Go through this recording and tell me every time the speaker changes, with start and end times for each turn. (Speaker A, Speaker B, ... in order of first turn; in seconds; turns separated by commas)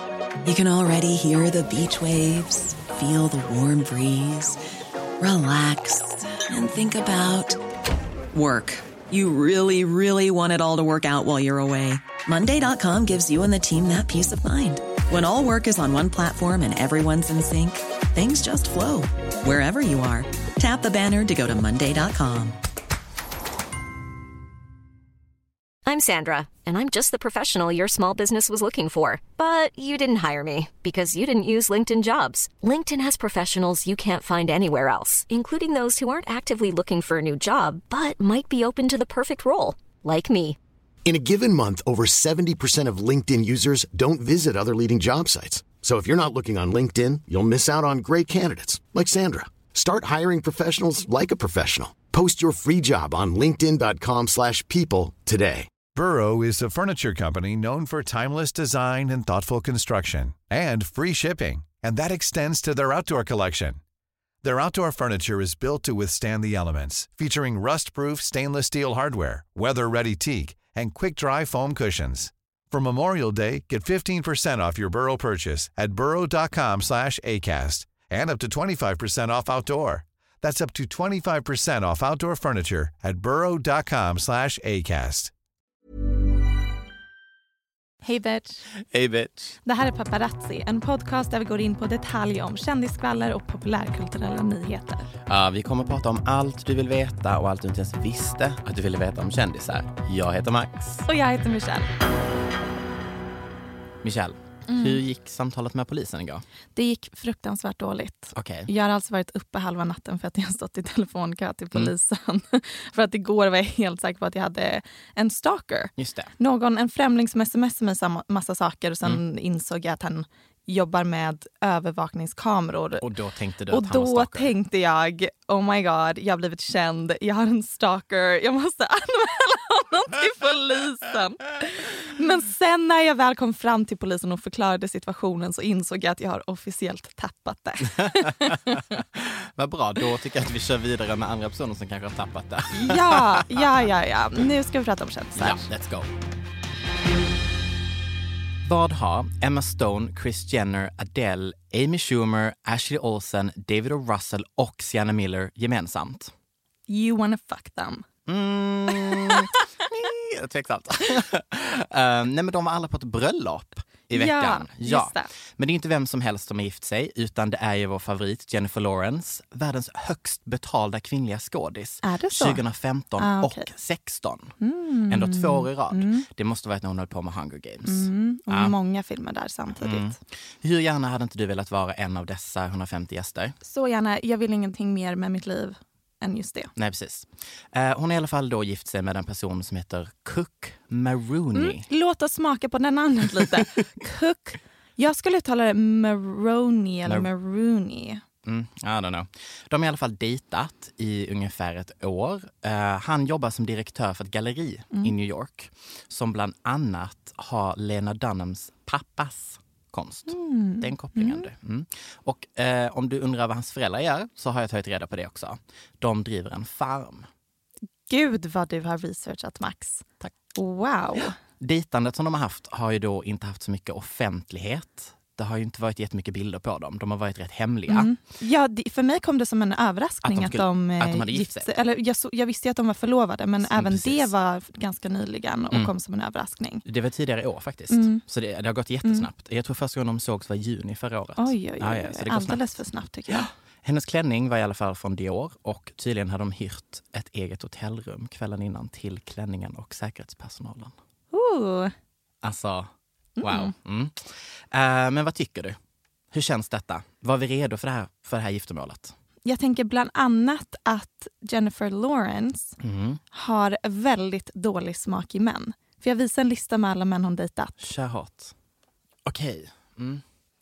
Speaker A: 0.4-4.6, Speaker A: 5.2-7.6, Speaker A: 8.3-22.6, Speaker B: 25.9-40.6, Speaker C: 41.0-55.7, Speaker D: 55.8-63.8, Speaker D: 64.4-85.3, Speaker E: 88.0-88.6, Speaker F: 88.9-89.5, Speaker E: 89.6-95.1, Speaker F: 95.2-101.1, Speaker E: 101.1-101.9, Speaker F: 104.0-106.4, Speaker E: 104.7-105.0, Speaker E: 106.7-123.1, Speaker F: 108.3-108.7, Speaker F: 116.0-116.3, Speaker F: 123.0-124.5, Speaker E: 123.7-138.8, Speaker F: 138.0-143.7, Speaker E: 142.7-145.6, Speaker F: 145.3-146.1, Speaker F: 148.6-156.3, Speaker E: 156.9-158.0, Speaker F: 158.2-174.5, Speaker E: 159.1-159.4, Speaker E: 164.1-165.3, Speaker E: 172.0-172.6, Speaker E: 173.2-173.7, Speaker E: 174.6-176.2, Speaker F: 175.1-178.7, Speaker E: 177.8-180.2, Speaker F: 179.8-183.6, Speaker E: 183.6-186.7, Speaker F: 186.8-191.8, Speaker E: 191.5-198.2, Speaker F: 198.4-217.3, Speaker E: 210.3-211.5, Speaker E: 218.1-221.3, Speaker F: 221.6-228.1, Speaker E: 227.9-236.8, Speaker F: 230.2-231.7, Speaker F: 233.6-234.3, Speaker F: 236.8-242.7, Speaker E: 237.9-238.2, Speaker E: 241.4-243.5, Speaker F: 243.3-250.9, Speaker E: 251.3-251.9, Speaker F: 252.4-255.8, Speaker E: 253.4-253.7, Speaker F: 256.3-259.1, Speaker E: 259.4-262.8, Speaker F: 262.8-263.2, Speaker E: 263.3-267.8, Speaker F: 267.8-268.5, Speaker F: 269.2-270.2